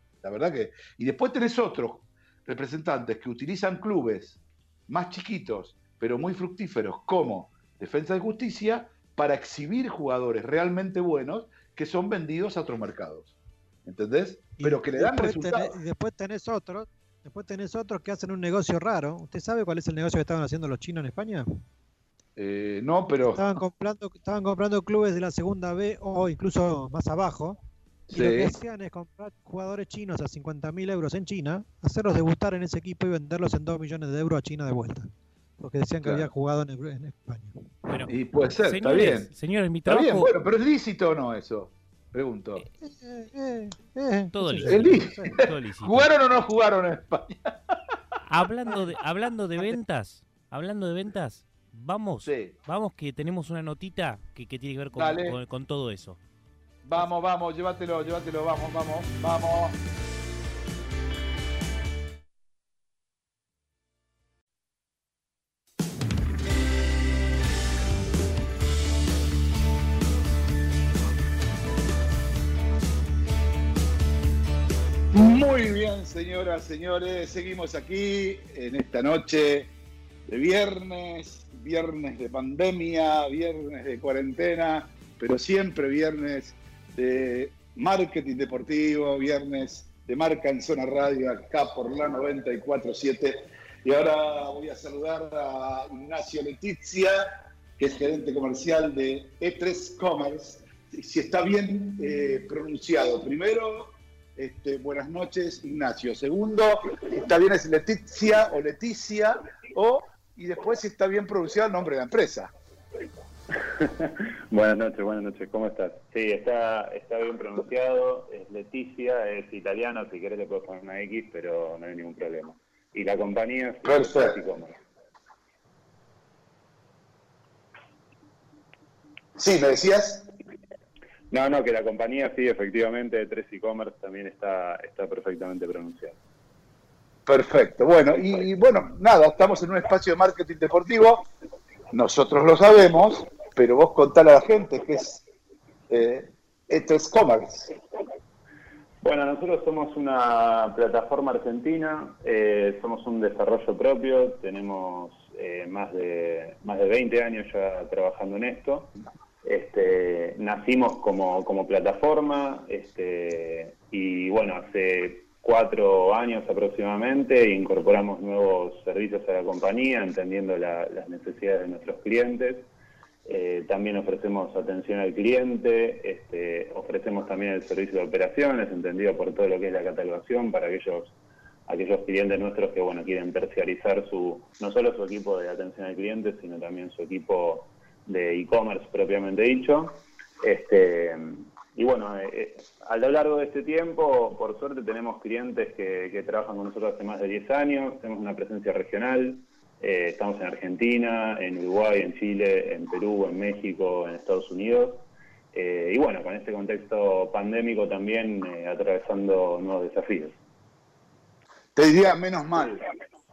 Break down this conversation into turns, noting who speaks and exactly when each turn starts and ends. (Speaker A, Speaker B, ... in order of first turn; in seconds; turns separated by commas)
Speaker A: 0.2-13.3, Speaker A: 13.8-15.8, Speaker B: 14.6-21.6, Speaker A: 22.4-23.5, Speaker B: 23.4-27.6, Speaker A: 28.1-28.5, Speaker B: 28.1-35.1, Speaker B: 35.6-37.9, Speaker A: 36.0-36.3, Speaker C: 37.9-40.3, Speaker A: 38.1-39.3, Speaker A: 39.9-42.7, Speaker B: 42.8-45.4, Speaker C: 44.3-46.1, Speaker A: 44.6-47.8, Speaker C: 48.3-56.2, Speaker A: 52.3-52.6, Speaker A: 54.9-55.4, Speaker A: 56.9-59.8, Speaker A: 75.1-79.7, Speaker A: 80.3-112.5, Speaker D: 113.8-124.8, Speaker A: 123.8-124.4, Speaker A: 129.4-130.3, Speaker D: 131.3-136.2, Speaker A: 137.3-141.3, Speaker A: 141.9-145.2, Speaker A: 145.9-147.7, Speaker D: 149.0-158.9, Speaker D: 159.4-172.7, Speaker D: 173.3-181.2, Speaker D: 181.7-210.4, Speaker A: 211.8-212.8